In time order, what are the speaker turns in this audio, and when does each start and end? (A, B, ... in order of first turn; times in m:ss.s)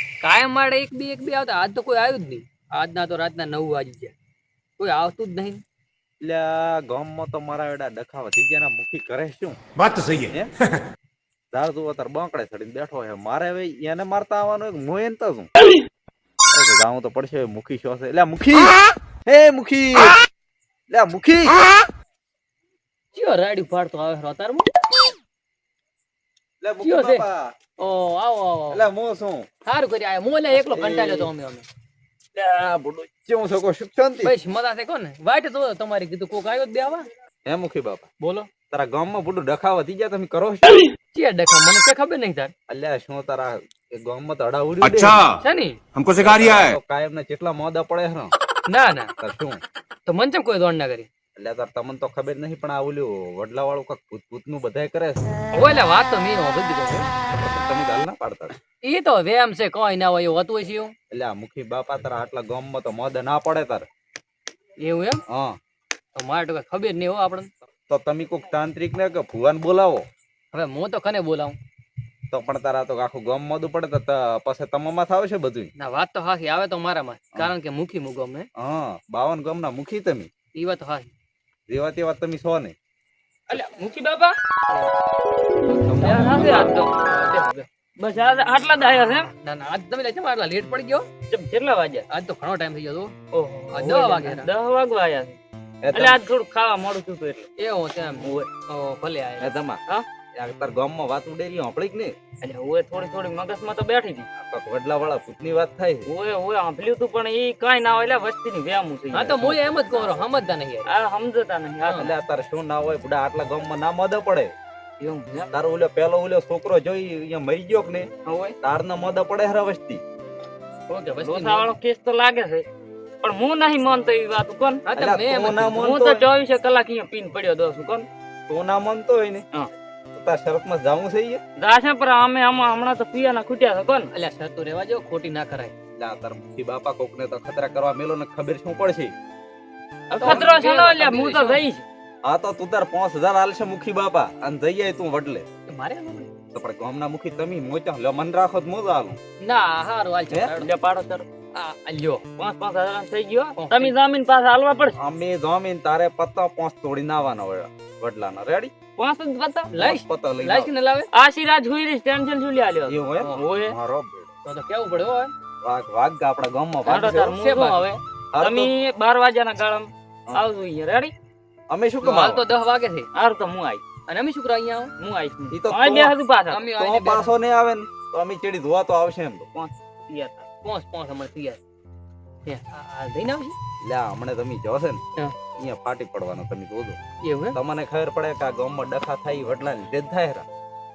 0:00.2-0:04.1 A
0:04.8-0:05.6 A
0:06.2-0:09.6 B
0:09.8-0:10.4 C
0:11.5-0:15.5 B
0:16.5-0:18.7 B
0:19.2-0:20.2 B
0:20.9-0:21.6 B
0:23.1-0:24.7 A
0:26.6-0:27.5 B
0:26.8-0:27.2 A
0:27.8-0:28.8 A
0:28.7-0:29.5 B
0:29.6-0:31.6 A
0:30.5-0:31.3 B
0:32.3-0:34.3 B
0:34.2-0:37.1 A
0:37.4-0:38.1 B
0:38.2-0:38.5 A
0:38.7-0:40.8 B
0:41.1-0:42.5 A
0:42.7-0:45.2 B
0:44.8-0:45.4 C
0:45.4-0:45.8 A
0:45.9-0:46.8 C
0:46.2-0:48.3 B
0:48.7-0:49.1 A
0:49.2-0:49.6 B
0:50.1-0:51.1 A
0:51.4-0:55.2 B
0:55.5-0:57.1 A
0:57.3-0:58.5 B
0:58.8-1:00.9 A
1:01.1-1:03.8 B
1:04.8-1:05.2 A
1:05.3-1:05.5 B
1:06.2-1:07.5 A
1:07.9-1:10.0 B
1:10.5-1:11.6 A
1:12.3-1:15.7 B
1:15.8-1:18.5 A
1:18.6-1:20.3 B
1:20.5-1:21.1 A
1:21.7-1:22.7 B
1:23.5-1:24.9 D
1:25.7-1:26.7 B
1:25.8-1:27.7 A
1:26.0-1:26.9 D
1:28.0-1:29.3 D
1:29.4-1:31.1 A
1:31.3-1:32.0 D
1:32.1-1:33.1 A
1:33.3-1:35.4 D
1:33.7-1:34.5 A
1:35.8-1:36.2 B
1:35.9-1:37.5 D
1:37.6-1:39.5 A
1:39.4-1:39.8 B
1:40.4-1:42.1 B
1:42.4-1:44.3 D
1:44.4-1:46.1 B
1:46.1-1:50.1 D
1:49.1-1:50.9 A
1:49.3-1:49.6 B
1:50.8-1:52.1 D
1:51.8-1:52.1 A
1:52.0-1:54.5 B
1:55.0-1:55.5 D
1:55.5-1:58.1 B
1:58.2-1:58.6 D
1:58.6-2:00.0 B
2:00.9-2:01.7 A
2:01.2-2:02.6 D
2:03.2-2:04.8 D
2:04.8-2:05.9 A
2:05.0-2:06.3 B
2:05.8-2:08.1 D
2:08.5-2:09.4 B
2:10.1-2:11.4 B
2:11.6-2:14.1 D
2:14.1-2:15.7 A
2:16.0-2:19.1 B
2:20.1-2:21.8 D
2:20.2-2:21.6 A
2:22.2-2:25.4 B
2:25.7-2:26.3 A
2:26.5-2:29.2 B
2:29.4-2:30.7 A
2:30.6-2:31.2 D
2:31.6-2:32.2 A
2:32.4-2:35.0 D
2:33.6-2:33.9 A
2:35.0-2:38.7 B
2:39.0-2:39.7 D
2:39.7-2:41.1 A
2:39.8-2:40.7 B
2:41.1-2:43.7 D
2:42.9-2:44.3 B
2:44.4-2:45.3 A
2:45.6-2:47.3 B
2:46.8-2:51.1 D
2:47.2-2:48.0 A
2:48.3-2:48.7 B
2:51.7-2:52.4 B
2:52.0-2:53.1 A
2:53.1-2:53.8 D
2:54.1-2:54.9 A
2:55.0-2:56.6 D
2:55.5-2:56.2 B
2:56.5-2:57.3 A
2:56.8-2:59.5 B
2:59.5-3:00.4 D
3:00.6-3:01.6 A
3:02.4-3:03.5 A
3:03.8-3:05.0 B
3:05.6-3:07.0 B
3:07.2-3:07.6 A
3:07.5-3:10.4 B